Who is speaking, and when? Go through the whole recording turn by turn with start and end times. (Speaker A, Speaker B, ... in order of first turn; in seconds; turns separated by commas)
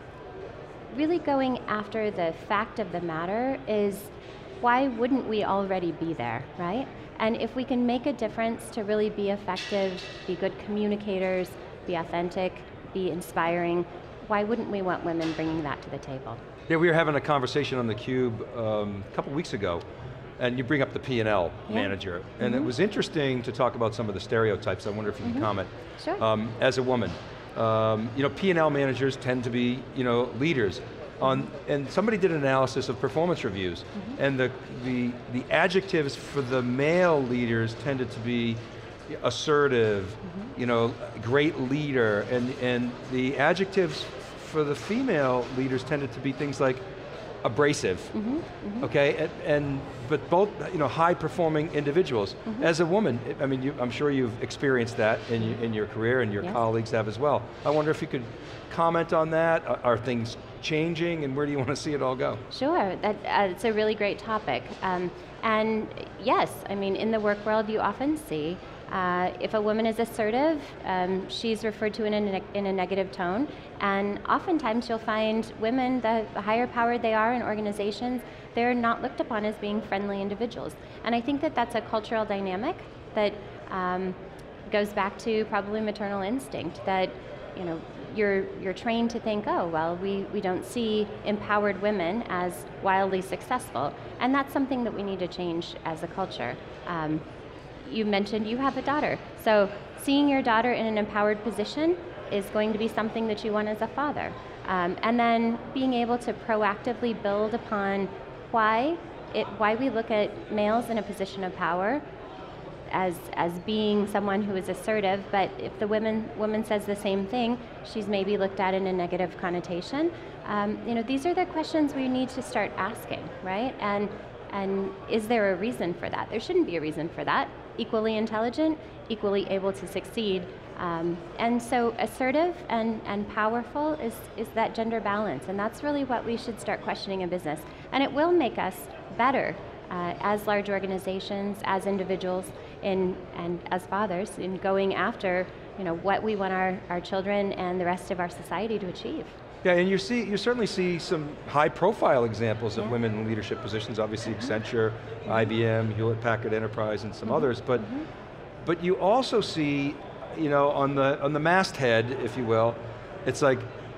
Speaker A: 0.9-16.4, Speaker B: 16.7-19.8, Speaker B: 20.4-46.8, Speaker A: 21.7-22.7, Speaker A: 25.2-26.2, Speaker A: 31.2-31.5, Speaker A: 40.2-40.5, Speaker B: 47.4-48.1, Speaker A: 48.1-48.9, Speaker B: 48.8-62.4, Speaker A: 62.5-84.2, Speaker A: 84.7-97.2, Speaker A: 97.8-112.0, Speaker A: 112.9-149.3, Speaker B: 149.6-157.9, Speaker A: 157.2-158.1, Speaker B: 158.6-163.7